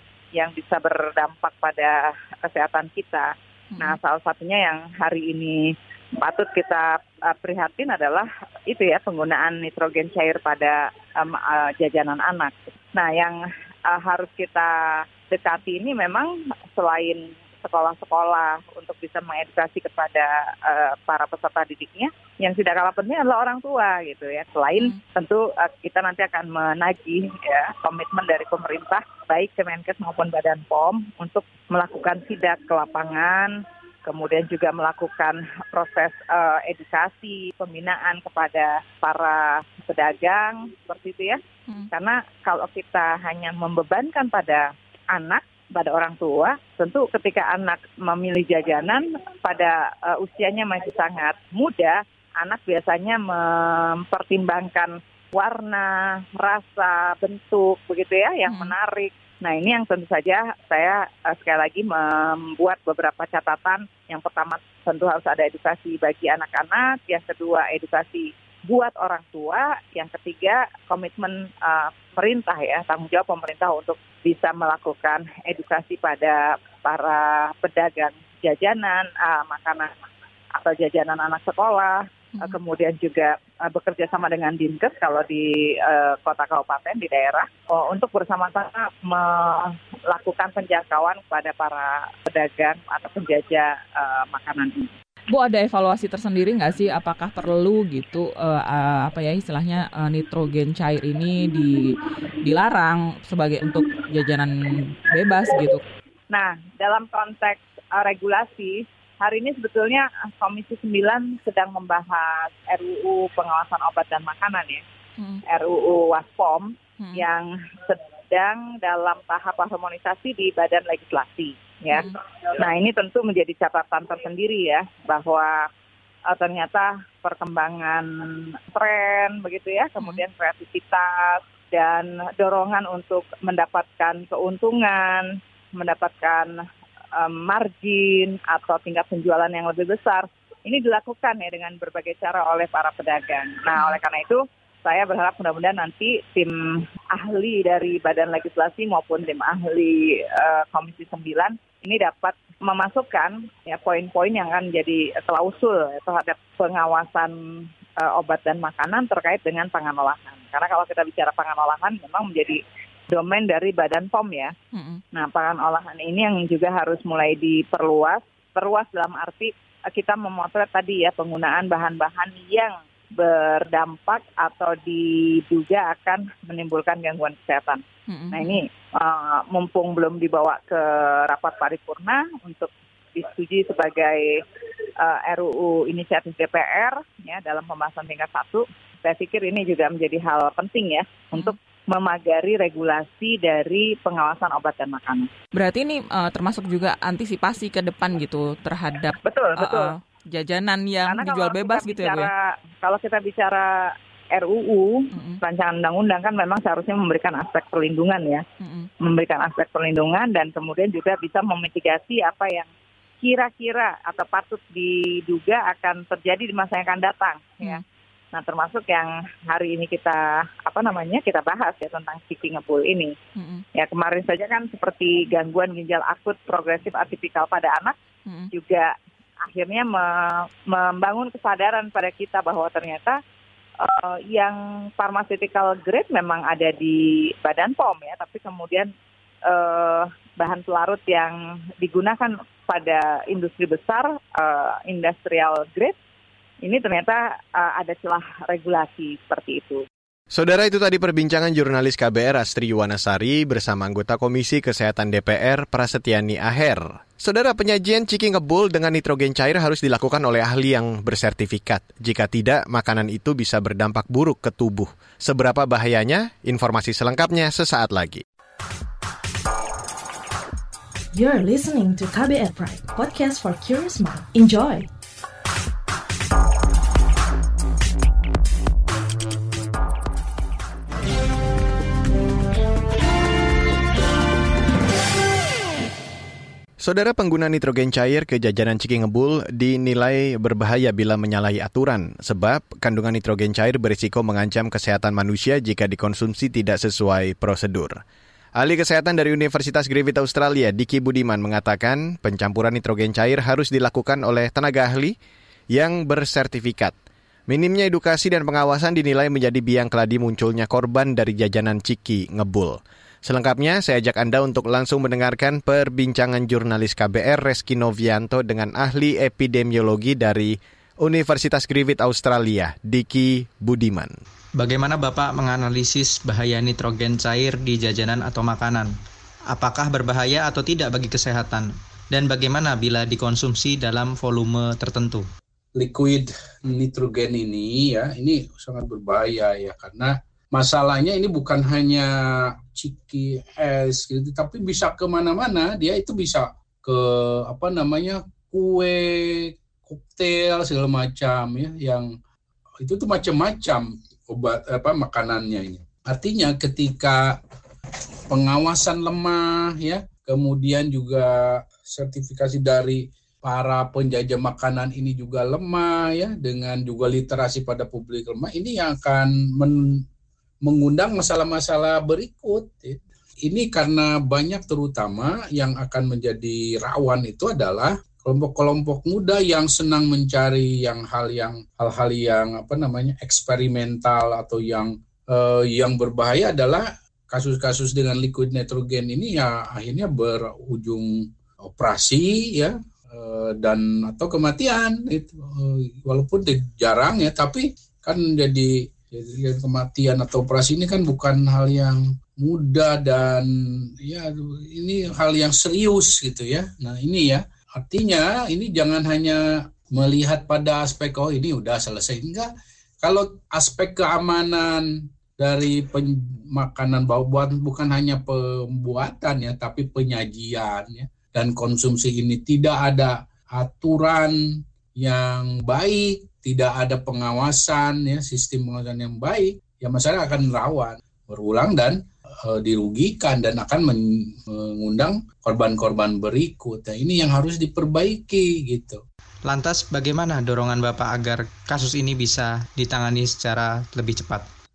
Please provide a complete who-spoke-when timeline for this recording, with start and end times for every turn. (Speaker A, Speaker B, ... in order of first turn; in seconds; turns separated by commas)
Speaker A: 0.3-41.4, Speaker B: 3.7-4.0, Speaker A: 41.9-94.9, Speaker B: 58.5-58.7, Speaker B: 95.3-105.8, Speaker A: 106.3-114.8, Speaker A: 115.5-125.7, Speaker B: 117.0-117.2, Speaker B: 121.9-122.2, Speaker A: 126.3-136.6, Speaker B: 130.0-130.2, Speaker A: 137.1-157.3, Speaker B: 143.7-144.0, Speaker A: 158.0-164.5, Speaker B: 164.7-165.0, Speaker A: 165.1-184.4, Speaker B: 178.1-178.6, Speaker A: 185.0-195.3, Speaker B: 195.5-202.3, Speaker A: 199.2-199.9, Speaker A: 201.1-208.4, Speaker B: 205.1-205.4, Speaker B: 208.6-208.9, Speaker A: 209.0-212.7, Speaker A: 213.2-217.8, Speaker A: 218.3-223.1, Speaker B: 223.3-223.6, Speaker A: 223.7-227.9, Speaker A: 228.5-233.2, Speaker A: 233.8-238.9, Speaker A: 239.4-245.9, Speaker A: 246.6-249.8, Speaker C: 250.3-268.2, Speaker D: 271.1-274.9, Speaker C: 286.8-298.0, Speaker C: 298.6-305.1, Speaker C: 305.7-306.9, Speaker C: 307.5-324.1, Speaker E: 324.6-328.9, Speaker E: 329.5-335.2, Speaker F: 335.8-352.1, Speaker F: 352.8-357.4, Speaker F: 358.3-370.0, Speaker F: 370.6-391.1, Speaker F: 391.6-403.5, Speaker F: 404.0-412.5, Speaker F: 413.0-424.3, Speaker F: 425.0-439.0, Speaker E: 439.5-444.4